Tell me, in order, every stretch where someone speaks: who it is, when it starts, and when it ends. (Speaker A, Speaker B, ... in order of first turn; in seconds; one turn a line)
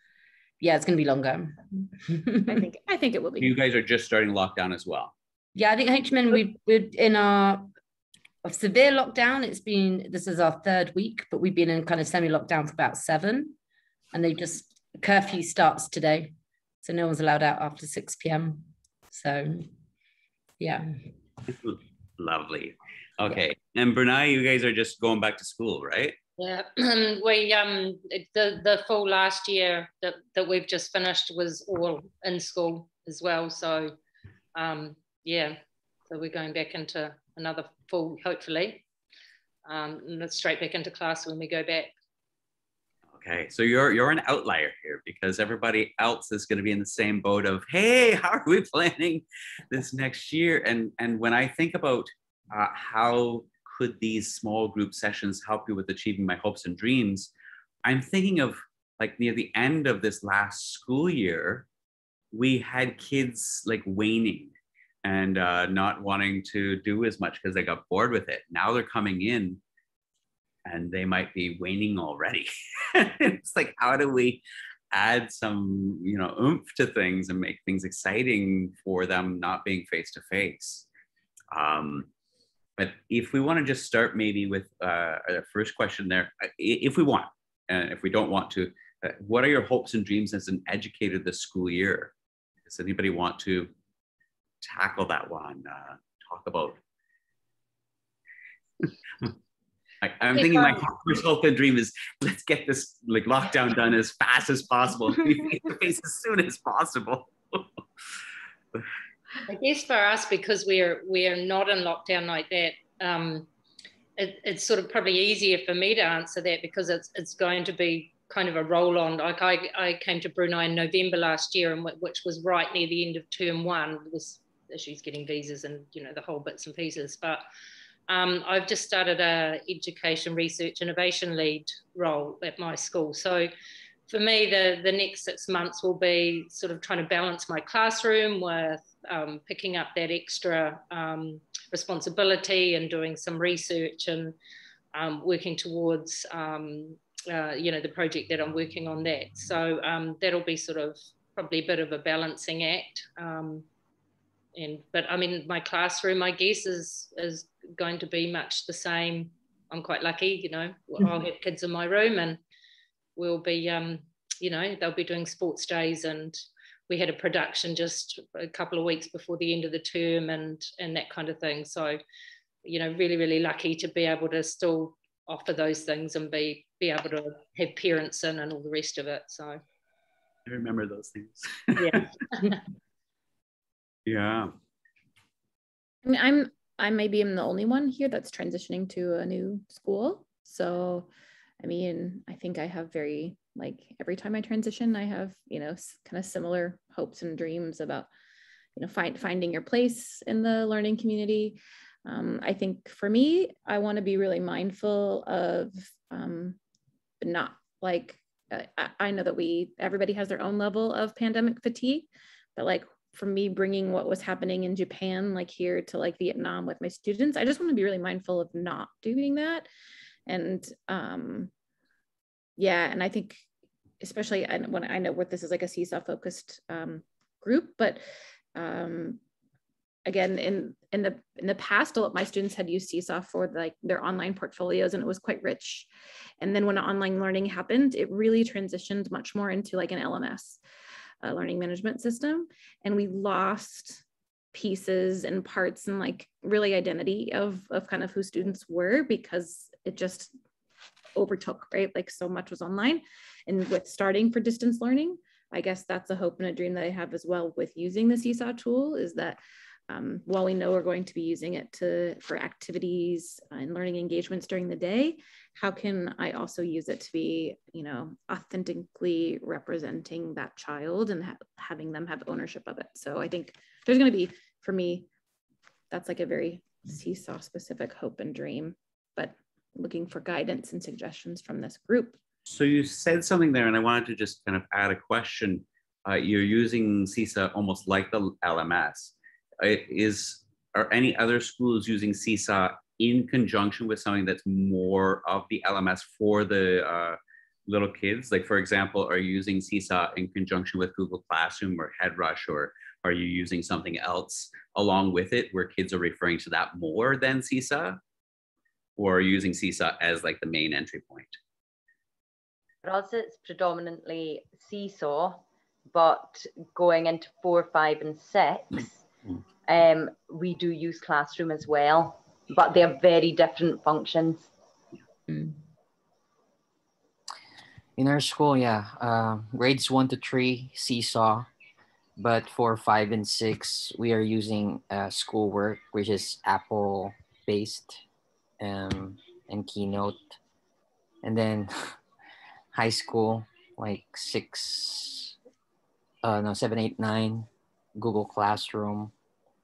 Speaker A: 0.6-2.7
Speaker B: 2.5-3.5
Speaker C: 3.4-5.1
Speaker A: 5.5-7.7
Speaker A: 8.4-13.5
Speaker A: 14.1-19.7
Speaker A: 20.6-20.9
Speaker C: 21.5-26.1
Speaker D: 26.4-34.0
Speaker D: 34.5-38.8
Speaker D: 39.6-41.9
Speaker C: 43.1-57.3
Speaker C: 57.8-61.7
Speaker C: 62.3-64.5
Speaker C: 65.0-69.6
Speaker C: 70.7-80.9
Speaker C: 81.5-82.1
Speaker C: 82.8-92.1
Speaker C: 92.7-93.7
Speaker C: 94.6-96.8
Speaker C: 100.0-107.7
Speaker D: 100.3-100.8
Speaker D: 109.5-113.5
Speaker D: 114.2-127.4
Speaker D: 128.1-133.5
Speaker D: 134.1-144.3
Speaker D: 144.9-153.7
Speaker D: 154.5-162.4
Speaker D: 163.2-172.0
Speaker D: 172.6-179.6
Speaker C: 180.4-182.1
Speaker C: 184.1-184.5
Speaker B: 186.0-191.1
Speaker B: 191.6-198.1
Speaker B: 198.8-206.6
Speaker B: 207.2-219.7
Speaker B: 220.3-221.5
Speaker B: 222.6-223.4
Speaker B: 224.0-228.0
Speaker B: 228.5-229.2
Speaker B: 230.0-235.9
Speaker B: 236.4-240.6
Speaker B: 241.2-250.3
Speaker B: 251.2-275.1
Speaker B: 275.9-282.2
Speaker C: 282.5-308.0
Speaker C: 309.0-311.4
Speaker E: 312.8-319.0
Speaker E: 319.6-324.5
Speaker A: 325.3-325.6
Speaker F: 328.0-331.5
Speaker F: 332.2-338.0
Speaker F: 338.6-340.4
Speaker F: 341.2-342.0
Speaker F: 342.7-345.3
Speaker F: 346.2-349.1